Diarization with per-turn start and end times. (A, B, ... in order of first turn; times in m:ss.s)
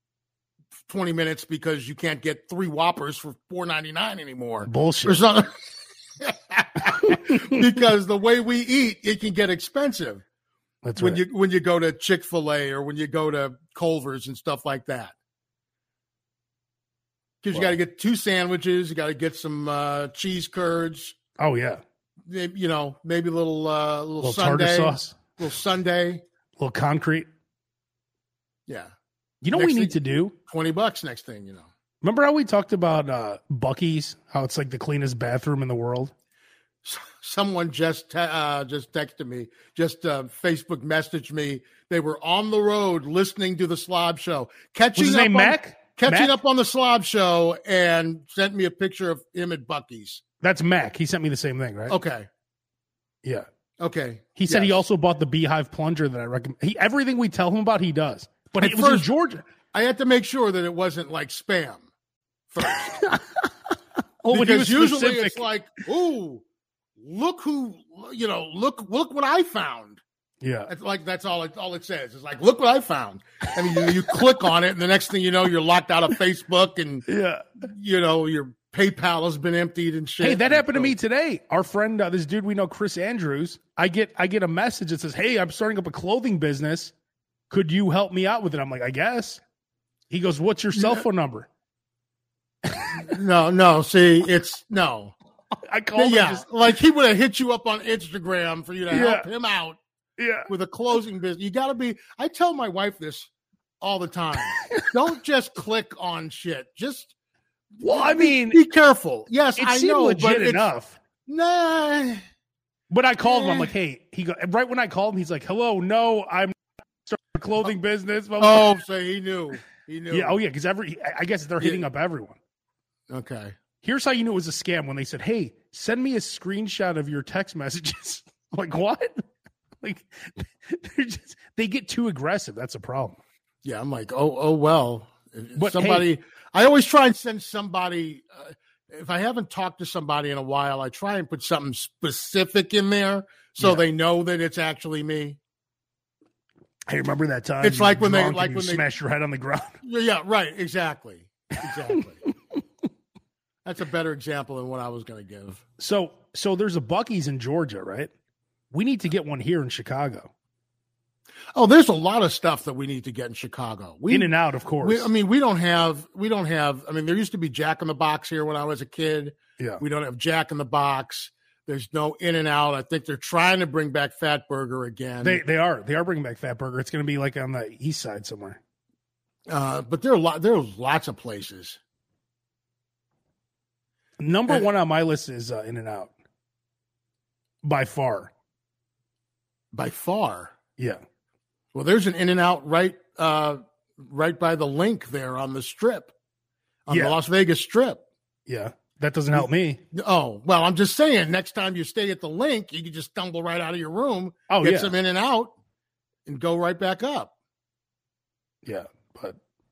0:00.9-0:10.2 A
0:04.7-0:05.2 B
0:07.0-0:07.6 B
0:10.8-0:11.2 B
0:11.0-0:15.1 A
0:17.4-0:21.2 A
0:21.4-0:21.8 B
0:22.2-0:26.2 A
0:24.2-0:25.2 B
0:26.6-0:27.3 B
0:28.7-0:28.9 A
0:29.4-0:30.3 B
0:29.5-0:31.7 A
0:32.0-0:36.1 B
0:36.8-0:50.2 A
0:45.0-0:46.4 B
0:50.4-0:52.0 B
0:51.9-0:52.3 A
0:53.8-0:54.8 A
0:54.4-0:59.4 B
0:58.6-0:59.1 A
0:59.7-1:01.9 A
1:02.5-1:03.0 A
1:02.7-1:03.2 B
1:04.2-1:05.4 B
1:04.3-1:06.4 A
1:07.0-1:10.0 A
1:10.4-1:10.7 B
1:10.7-1:17.0 A
1:17.1-1:17.4 B
1:17.6-1:20.9 A
1:20.2-1:26.9 B
1:27.5-1:29.4 B
1:30.1-1:31.5 B
1:30.7-1:31.0 A
1:32.7-1:33.1 B
1:32.9-1:35.1 A
1:35.6-1:36.4 B
1:36.0-1:39.8 A
1:38.9-1:39.3 B
1:40.2-1:40.5 B
1:40.5-1:47.1 A
1:44.6-1:44.9 B
1:47.8-1:50.7 A
1:47.8-1:48.6 B
1:49.6-1:51.0 B
1:51.2-1:52.2 A
1:52.9-1:58.7 B
1:53.2-1:53.7 A
1:58.4-2:00.4 A
2:00.1-2:02.4 B
2:03.1-2:03.6 A
2:03.8-2:09.2 B
2:09.8-2:13.2 B
2:13.6-2:25.4 A
2:15.5-2:16.1 B
2:26.9-2:29.8 B
2:27.6-2:28.8 A
2:29.8-2:32.2 A
2:33.6-2:35.6 A
2:35.8-2:38.1 B
2:38.7-2:40.3 B
2:41.5-2:55.4 A
2:44.1-2:45.1 B
2:55.2-2:58.6 B
2:59.5-3:01.8 A
3:04.2-3:06.1 B
3:07.6-3:08.3 B
3:09.7-3:10.5 A
3:11.7-3:16.1 A
3:16.8-3:18.0 A
3:16.9-3:17.2 B
3:18.5-3:19.8 B
3:19.3-3:25.5 A
3:24.5-3:24.9 B
3:26.2-3:27.3 A
3:28.6-3:29.4 B